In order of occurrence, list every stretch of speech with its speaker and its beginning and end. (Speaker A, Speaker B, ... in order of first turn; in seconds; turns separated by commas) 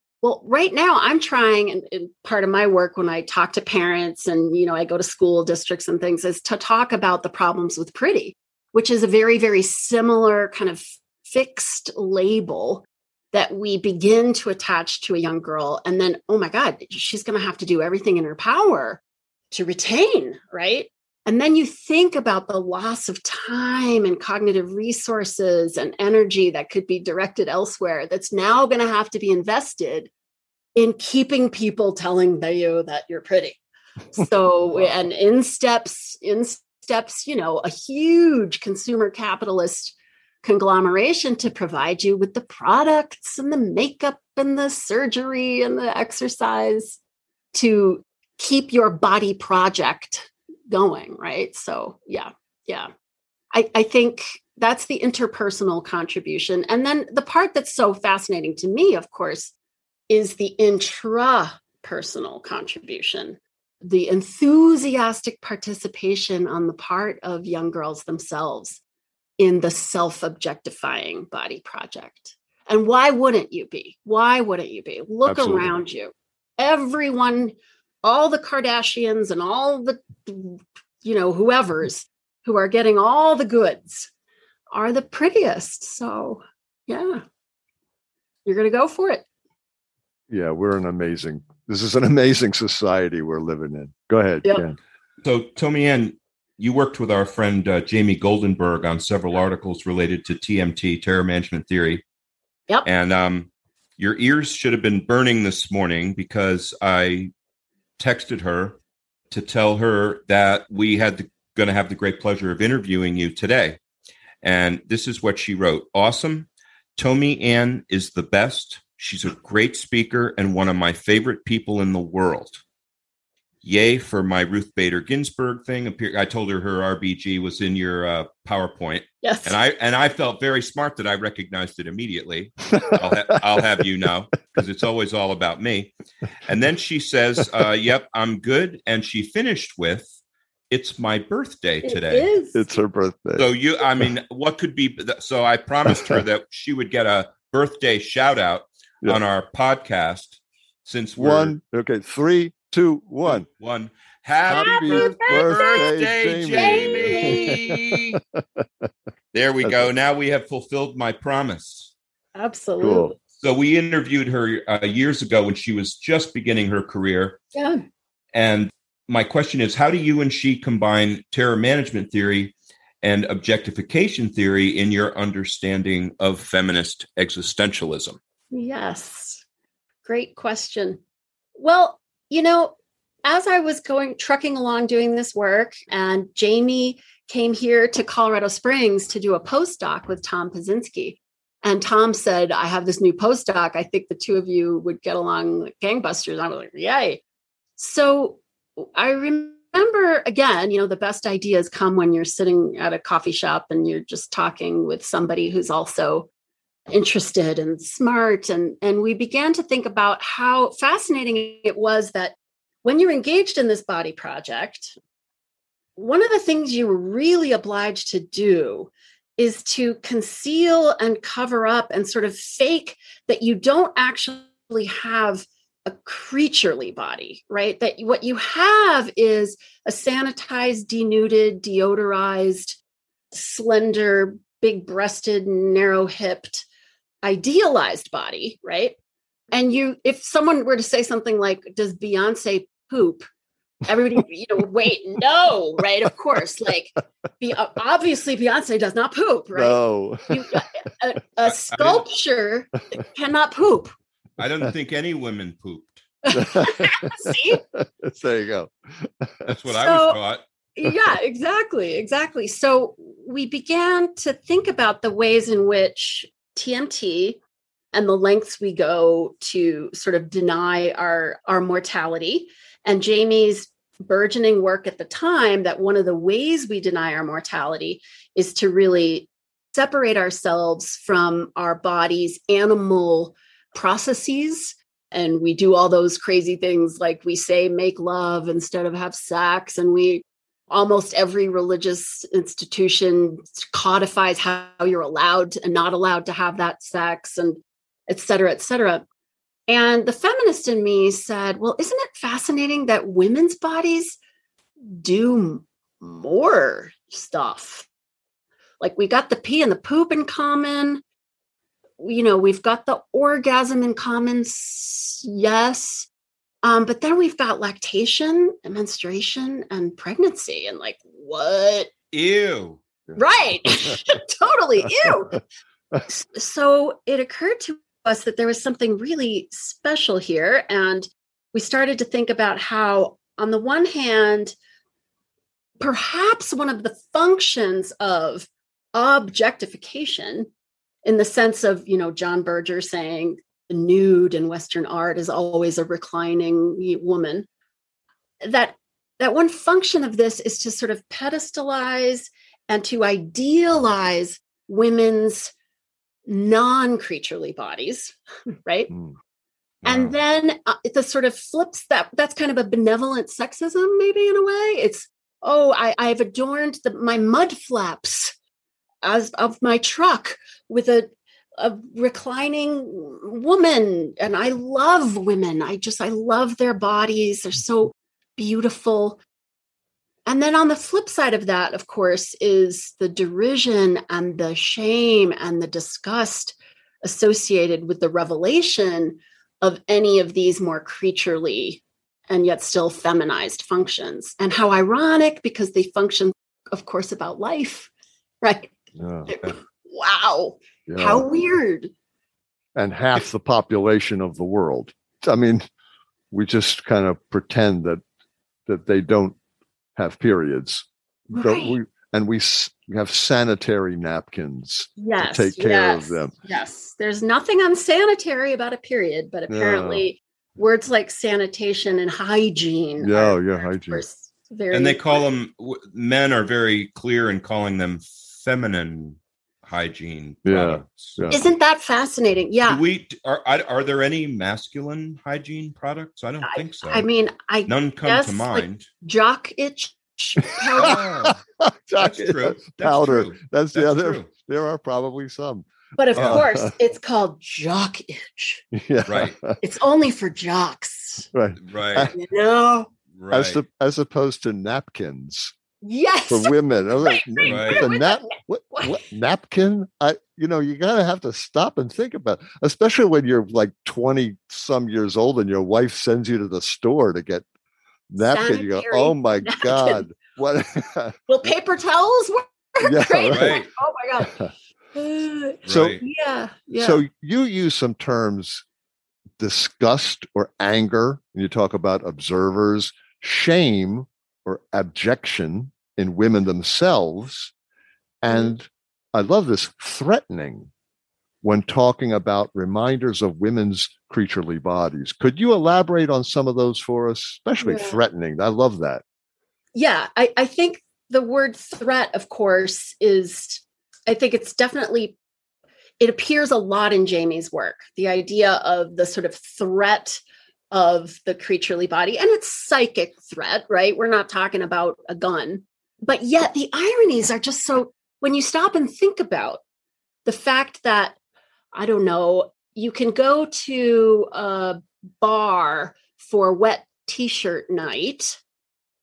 Speaker A: 0.2-30.1, Speaker A: 30.8-33.6, Speaker A: 34.1-47.0, Speaker A: 47.5-52.9, Speaker A: 53.5-59.5, Speaker A: 60.1-68.8, Speaker A: 69.4-84.1, Speaker B: 75.3-75.7, Speaker A: 84.7-87.2, Speaker A: 88.5-89.2, Speaker B: 90.3-94.8, Speaker C: 95.2-102.0, Speaker C: 102.8-107.3, Speaker C: 108.0-108.8, Speaker C: 109.3-113.8, Speaker C: 114.4-122.6, Speaker C: 123.6-135.9, Speaker A: 129.2-129.6, Speaker B: 132.8-133.8, Speaker C: 136.5-140.1, Speaker C: 140.7-142.3, Speaker A: 141.8-142.6, Speaker B: 142.6-143.5, Speaker C: 143.4-151.6, Speaker B: 145.9-146.2, Speaker B: 151.2-153.5, Speaker C: 153.3-158.2, Speaker B: 154.4-158.9, Speaker A: 154.6-155.9, Speaker A: 156.5-157.6, Speaker C: 159.3-161.9, Speaker B: 159.6-159.9, Speaker A: 162.4-163.2, Speaker B: 162.8-163.1, Speaker C: 163.4-167.4, Speaker A: 167.5-167.8, Speaker C: 168.3-178.2, Speaker A: 178.5-179.4, Speaker A: 180.1-181.0, Speaker A: 181.6-197.2, Speaker A: 197.8-206.3, Speaker A: 206.9-215.0, Speaker A: 216.0-232.8, Speaker A: 233.3-236.7, Speaker A: 237.2-239.0, Speaker A: 239.5-243.3, Speaker A: 243.8-253.9, Speaker B: 249.6-250.6, Speaker C: 251.4-252.0, Speaker C: 254.4-256.0, Speaker A: 256.2-257.6, Speaker B: 256.3-259.6, Speaker C: 259.5-260.4, Speaker A: 259.7-260.2, Speaker A: 260.8-267.4, Speaker A: 267.9-299.0, Speaker A: 299.7-304.2, Speaker A: 304.8-307.9, Speaker A: 308.8-311.0, Speaker A: 312.0-316.1, Speaker A: 316.6-321.9, Speaker C: 322.1-322.8, Speaker B: 323.1-324.0, Speaker A: 323.2-325.4, Speaker A: 326.1-334.6, Speaker A: 335.8-340.5, Speaker A: 341.1-347.5, Speaker A: 348.4-355.5, Speaker A: 356.3-358.9, Speaker C: 359.8-360.1, Speaker A: 359.8-368.4, Speaker A: 369.0-379.2, Speaker A: 380.3-397.9, Speaker A: 398.4-401.9, Speaker B: 399.0-399.5, Speaker B: 400.9-401.3, Speaker B: 402.8-405.7, Speaker B: 406.3-408.0, Speaker B: 408.7-409.4, Speaker B: 410.0-416.3, Speaker A: 411.3-411.8, Speaker A: 415.0-425.2, Speaker B: 419.5-420.1, Speaker B: 423.0-424.0, Speaker C: 424.7-431.2, Speaker B: 430.4-431.4, Speaker A: 431.3-432.8, Speaker C: 432.7-437.1, Speaker A: 436.4-441.1, Speaker C: 437.7-438.9, Speaker B: 440.5-446.7, Speaker C: 440.7-441.4, Speaker C: 441.9-444.3, Speaker A: 446.0-448.6, Speaker C: 446.2-446.4, Speaker B: 448.7-449.6, Speaker C: 449.1-449.4, Speaker A: 449.6-451.3, Speaker B: 451.3-452.2, Speaker C: 451.6-452.1, Speaker A: 452.1-452.9, Speaker C: 453.1-453.6, Speaker B: 453.3-455.6, Speaker A: 455.8-459.1, Speaker B: 456.3-467.4, Speaker C: 457.5-457.9, Speaker B: 468.1-471.2, Speaker A: 468.2-470.1, Speaker A: 471.3-474.4, Speaker B: 472.8-473.6, Speaker C: 473.3-473.7, Speaker B: 474.2-474.5, Speaker A: 474.9-477.0, Speaker C: 475.6-476.0, Speaker B: 475.7-476.0, Speaker B: 476.7-478.6, Speaker B: 479.4-487.5, Speaker B: 488.2-490.7, Speaker A: 488.3-488.5, Speaker B: 491.4-499.0, Speaker A: 497.6-498.0, Speaker A: 499.8-505.2, Speaker A: 506.0-510.2, Speaker A: 510.7-519.6, Speaker A: 520.2-521.2, Speaker A: 521.7-528.4